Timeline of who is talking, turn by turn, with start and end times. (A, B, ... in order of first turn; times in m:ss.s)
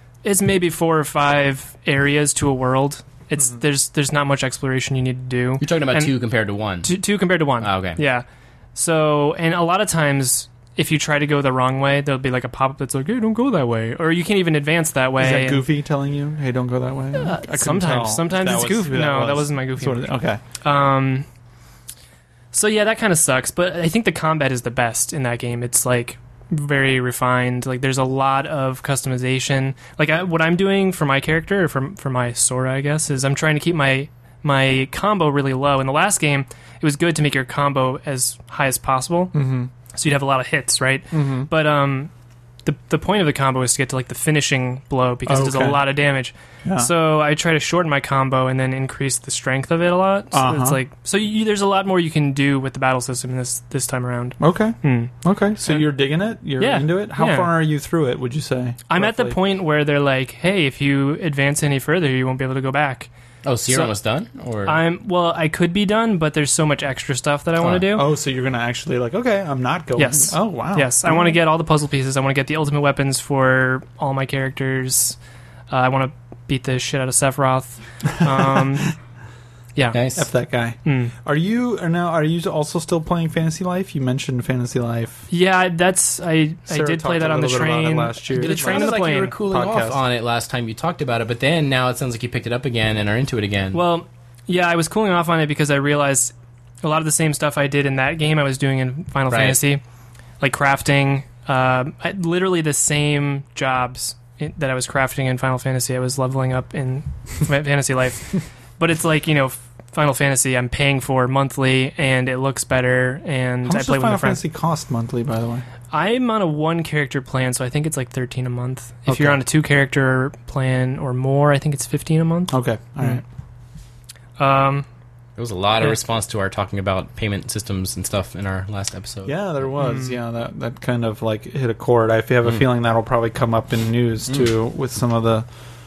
0:00.2-0:06.1 A
0:05.6-0:07.0 B
0:06.8-0:15.6 A
0:07.6-0:08.0 B
0:15.2-0:20.4 C
0:17.2-0:21.3 A
0:22.5-0:39.4 A
0:39.3-0:39.7 C
0:39.9-0:42.1 A
0:41.1-0:41.5 C
0:42.6-0:55.1 A
0:45.3-0:45.9 C
0:46.6-0:46.9 C
0:50.3-0:50.8 C
0:54.4-0:59.4 C
0:56.6-0:57.5 A
0:58.9-1:03.1 A
1:03.4-1:04.8 B
1:03.7-1:04.0 A
1:04.7-1:08.1 A
1:07.6-1:07.9 B
1:07.9-1:11.4 C
1:10.0-1:15.2 A
1:15.7-1:19.0 A
1:18.2-1:18.9 C
1:19.9-1:20.2 B
1:20.2-1:25.3 C
1:20.8-1:21.1 A
1:25.3-1:29.3 A
1:26.7-1:30.0 C
1:28.3-1:33.8 B
1:33.7-1:39.8 A
1:39.3-1:39.6 B
1:40.4-1:54.4 A
1:53.6-1:55.6 C
1:55.9-2:03.2 A
1:59.1-1:59.4 C
2:02.5-2:03.2 C
2:04.4-2:04.9 A
2:05.4-2:09.4 B
2:09.3-2:15.5 C
2:09.8-2:10.2 A